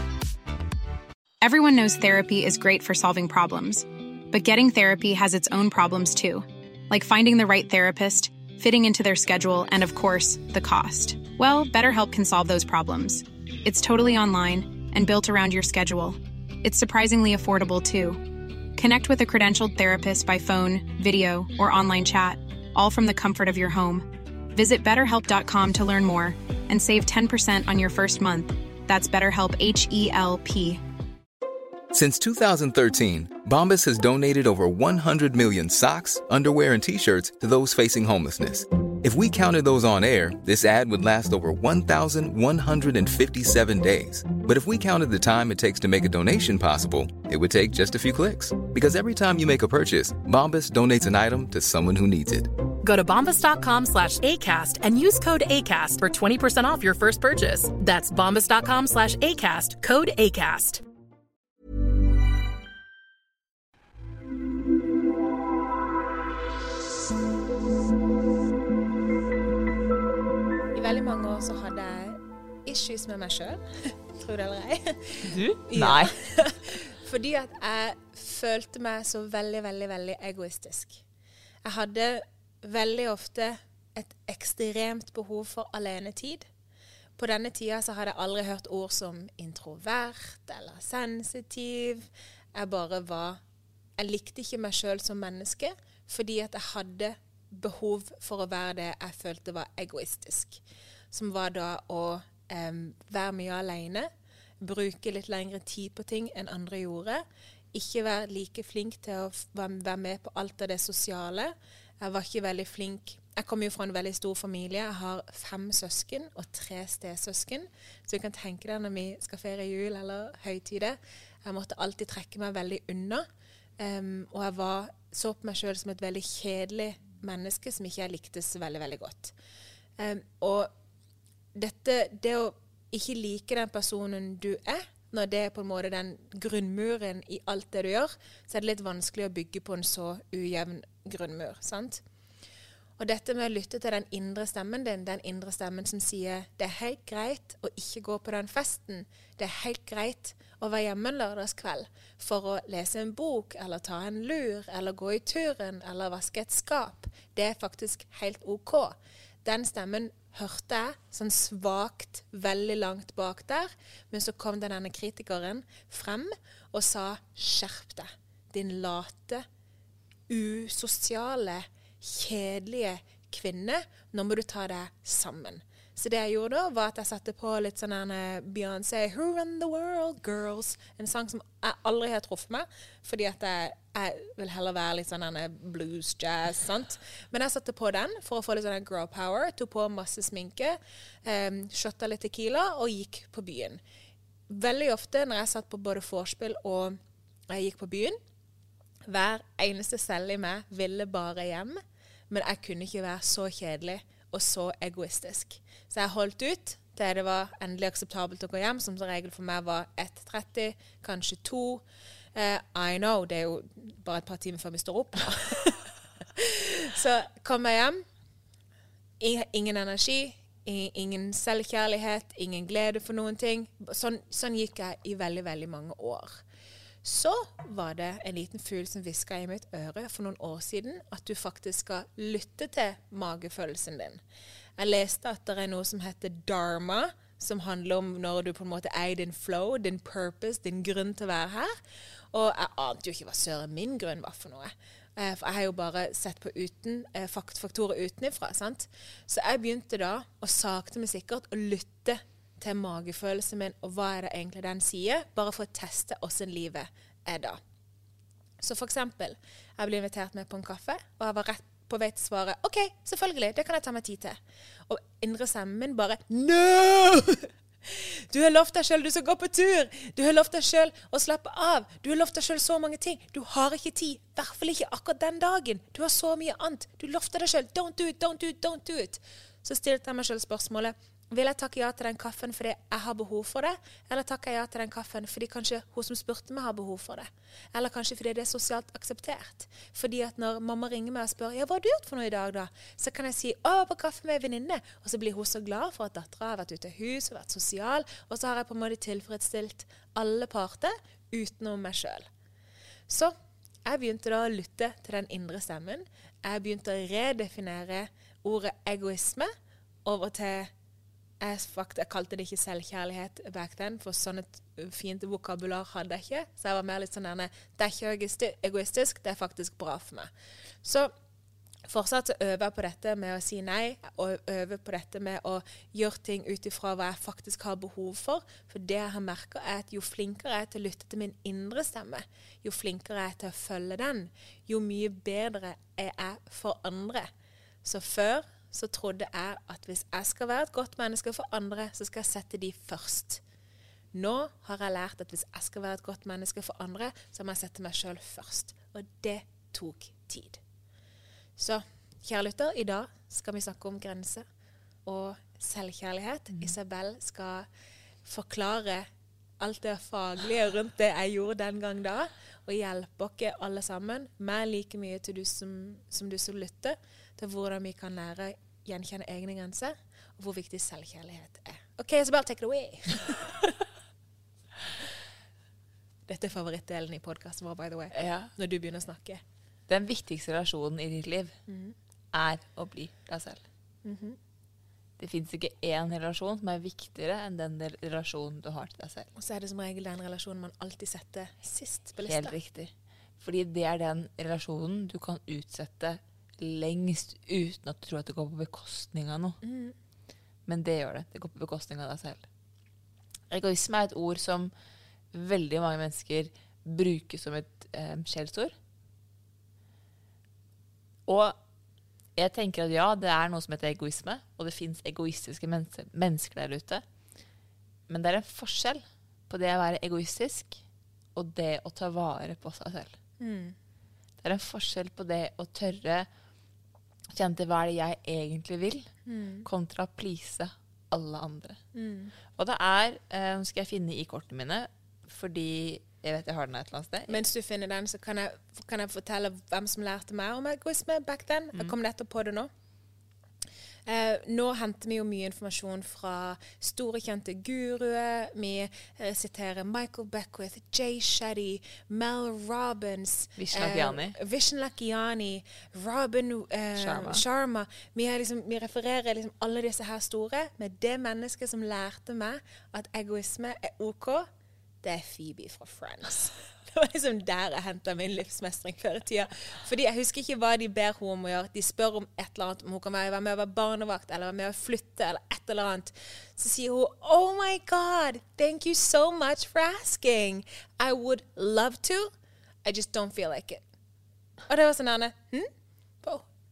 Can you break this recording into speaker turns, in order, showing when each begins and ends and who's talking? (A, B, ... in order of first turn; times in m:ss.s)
0:01.4-0:30.8 A
0:31.9-0:52.5 B
0:52.8-1:00.8 C
1:10.7-1:21.0 D
1:15.2-1:16.2 E
1:21.6-1:26.5 D
1:27.2-1:33.4 D
1:34.0-1:40.6 D
1:41.1-1:44.1 D
1:44.6-1:47.2 D
1:47.7-2:03.2 D
2:03.8-2:09.3 D
2:10.0-2:10.7 D
2:11.6-2:22.0 D
2:23.0-2:49.5 D
2:50.3-3:13.8 D
3:14.5-3:17.0 D
3:17.5-3:18.2 D
3:19.1-3:21.8 D
3:22.3-3:31.8 D
3:32.3-3:35.8 D
3:36.4-3:38.0 D
3:39.2-3:46.4 D
3:47.0-3:54.2 D
3:54.8-4:01.8 D
4:02.3-4:17.6 D
4:18.6-4:24.4 D
4:24.9-5:02.3 D
5:03.1-5:03.3 D
5:03.8-5:09.5 D
5:10.0-5:10.7 D
5:11.4-5:20.3 D
5:20.8-5:21.1 D
5:21.9-5:37.3 D
5:37.8-5:43.4 D
5:44.1-5:50.6 D
5:51.6-5:54.4 D
5:55.1-5:57.7 D
5:58.2-5:59.1 D
5:59.6-6:13.8 D
6:16.3-6:19.4 D
6:18.1-6:18.5 E
6:19.9-6:21.6 E
6:21.7-6:21.9 D
6:22.3-6:23.6 E
6:24.0-6:24.4 D
6:25.2-6:29.3 E
6:29.4-6:32.6 D
6:32.2-6:39.6 E
6:39.6-6:39.9 D
6:40.6-6:42.5 E
6:43.5-6:44.7 E
6:45.3-6:48.7 E
6:51.3-6:51.6 E
6:52.4-6:57.0 E
6:58.1-7:00.8 E
7:01.3-7:03.2 E
7:03.4-7:03.8 D
7:04.4-7:06.3 E
7:07.3-7:09.1 E
7:09.2-7:09.7 D
7:09.6-7:11.8 E
7:11.9-7:12.3 D
7:12.5-7:17.4 E
7:17.3-7:22.7 D
7:24.1-7:44.5 D
7:33.6-7:34.4 E
7:37.0-7:37.4 E
7:45.0-8:02.3 D
8:02.8-8:03.8 D
8:04.7-8:05.7 D